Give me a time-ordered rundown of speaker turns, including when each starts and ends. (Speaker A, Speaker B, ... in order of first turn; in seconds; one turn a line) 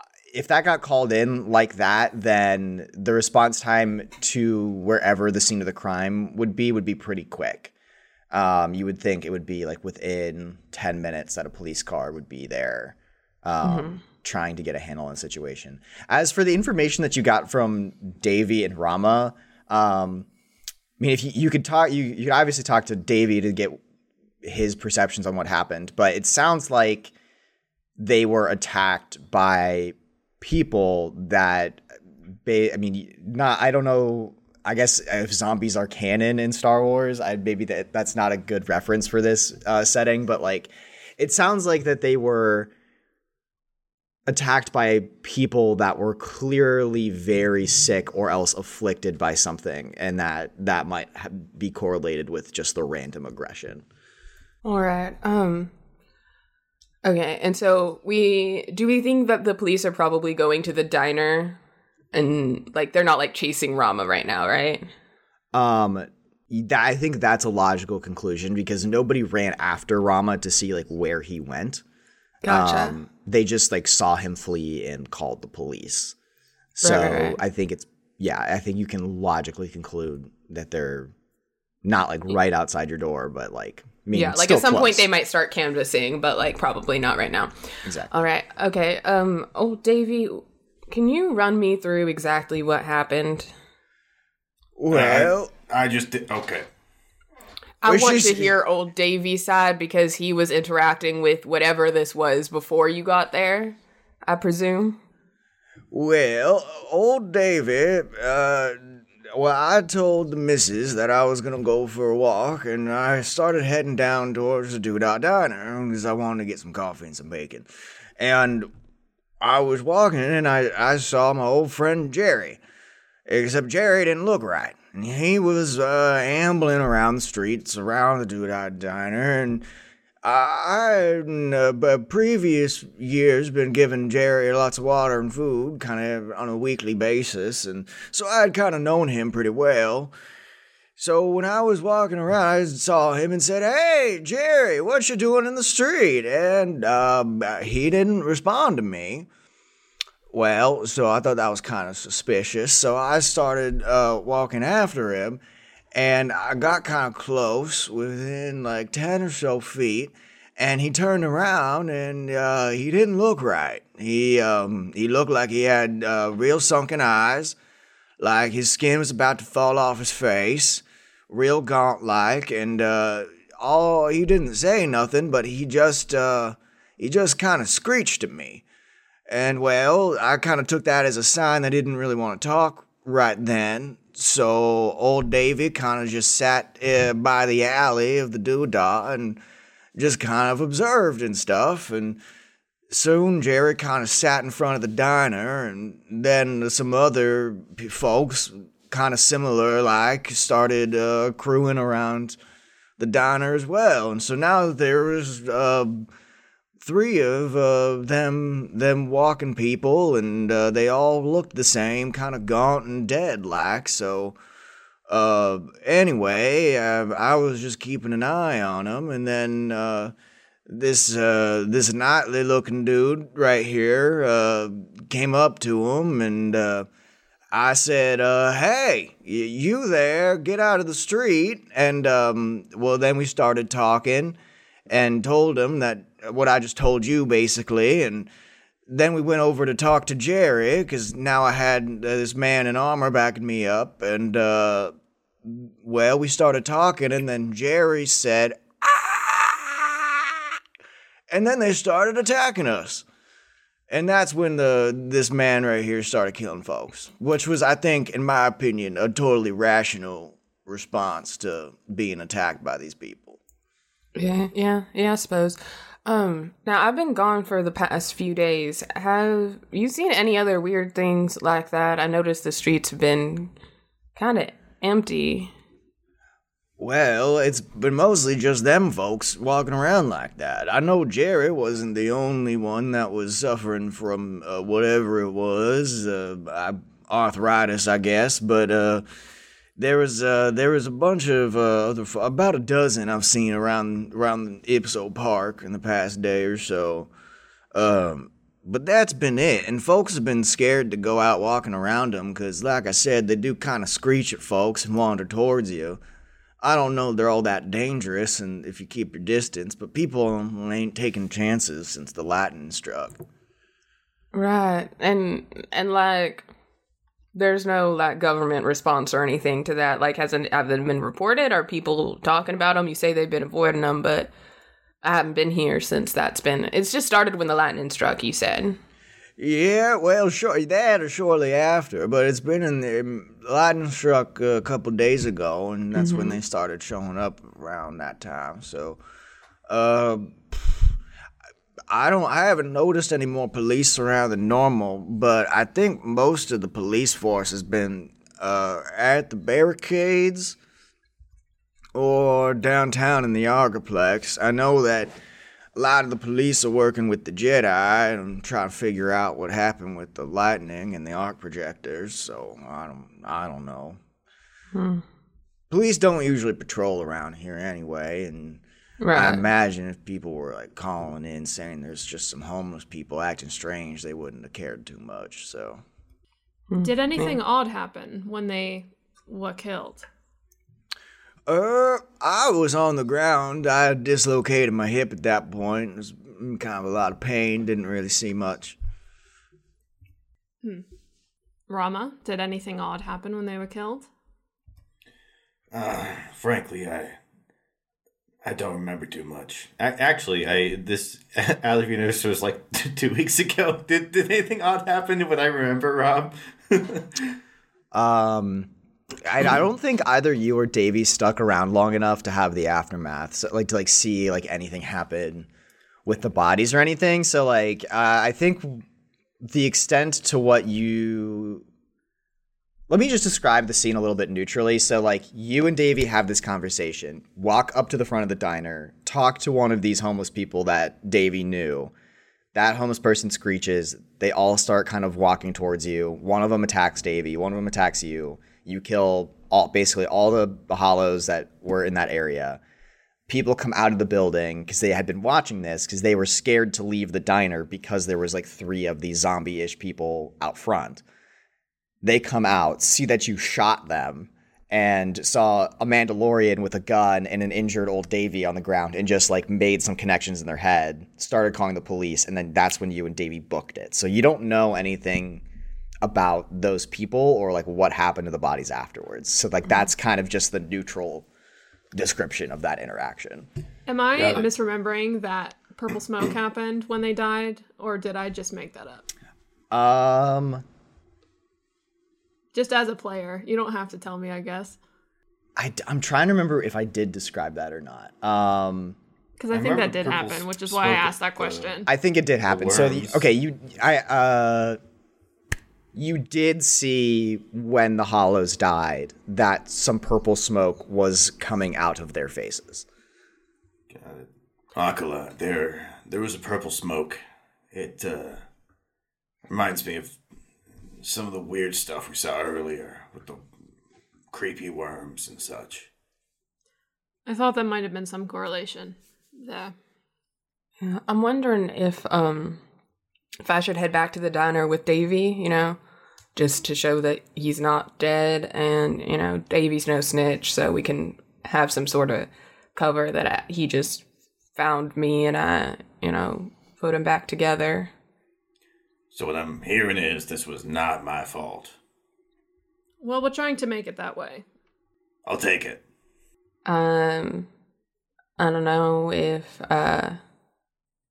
Speaker A: 0.3-7.7
Speaker A: 8.3-20.3
Speaker B: 13.6-14.0
Speaker A: 21.0-23.8
Speaker A: 24.4-27.1
Speaker A: 28.0-31.9
Speaker A: 32.4-42.7
Speaker A: 44.3-53.8
Speaker B: 54.6-55.7
Speaker B: 57.0-61.6
Speaker B: 62.1-64.9
Speaker A: 65.5-71.8
Speaker B: 72.4-72.9
Speaker A: 72.4-76.1
Speaker A: 76.8-81.1
Speaker B: 76.8-77.4
Speaker A: 81.8-85.0
Speaker B: 84.1-87.5
Speaker A: 87.8-88.1
Speaker B: 88.1-93.5
Speaker A: 94.8-95.5
Speaker C: 94.9-96.7
Speaker B: 97.8-105.0
Speaker A: 97.8-98.5
Speaker A: 105.9-117.7
Speaker A: 118.2-118.7
Speaker A: 119.4-122.6
Speaker A: 123.3-129.6
Speaker A: 130.2-140.1
Speaker A: 141.0-149.3
Speaker A: 150.3-155.4
Speaker A: 155.9-167.6
Speaker A: 168.2-178.6
Speaker A: 179.3-189.4
Speaker A: 189.9-192.2
Speaker A: 192.9-202.4
Speaker A: 203.0-206.1
Speaker A: 206.8-214.4
Speaker A: 215.1-220.1
Speaker A: 220.7-226.9
Speaker A: 227.5-234.4
Speaker A: 234.9-238.3
Speaker A: 238.9-250.5
Speaker A: 251.3-253.0
Speaker A: 253.9-263.4
Speaker B: 264.1-273.5
Speaker B: 274.1-275.5
Speaker A: 276.8-289.0
Speaker A: 289.8-297.1
Speaker A: 297.7-306.0
Speaker A: 306.6-313.2
Speaker B: 314.3-316.5
Speaker B: 317.3-324.3
Speaker B: 325.0-328.8
Speaker A: 329.4-339.0
Speaker B: 335.9-336.4
Speaker A: 339.7-340.9
Speaker A: 341.9-350.6
Speaker A: 351.9-355.1
Speaker A: 355.7-364.0
Speaker B: 364.7-365.0
Speaker A: 365.7-375.8
Speaker B: 369.0-369.4
Speaker B: 376.7-377.4
Speaker D: 376.8-380.1
Speaker A: 381.5-388.8
Speaker D: 391.7-394.1
Speaker C: 395.7-397.1
Speaker C: 398.4-407.3
Speaker A: 407.9-408.7
Speaker A: 409.2-415.5
Speaker A: 416.1-418.8
Speaker A: 419.4-421.6
Speaker A: 422.9-431.9
Speaker A: 432.5-442.6
Speaker A: 443.3-451.0
Speaker A: 452.0-465.4
Speaker A: 466.0-471.2
Speaker A: 471.9-473.5
Speaker D: 473.9-479.1
Speaker A: 474.1-474.4
Speaker C: 474.2-474.4
Speaker A: 479.7-480.6
Speaker D: 482.5-484.8
Speaker A: 485.6-489.0
Speaker D: 489.4-491.9
Speaker C: 489.5-491.7
Speaker A: 491.9-494.8
Speaker C: 492.5-493.2
Speaker A: 495.9-502.9
Speaker C: 503.9-507.2
Speaker C: 507.7-508.4
Speaker C: 509.5-510.2
Speaker C: 511.0-513.5
Speaker C: 514.3-515.9
Speaker D: 517.2-519.7
Speaker B: 520.8-522.6
Speaker B: 523.4-525.8
Speaker B: 526.4-534.0
Speaker B: 534.5-537.9
Speaker C: 539.1-541.7
Speaker D: 543.0-544.4
Speaker C: 545.2-545.8
Speaker B: 546.6-547.5
Speaker B: 548.4-550.2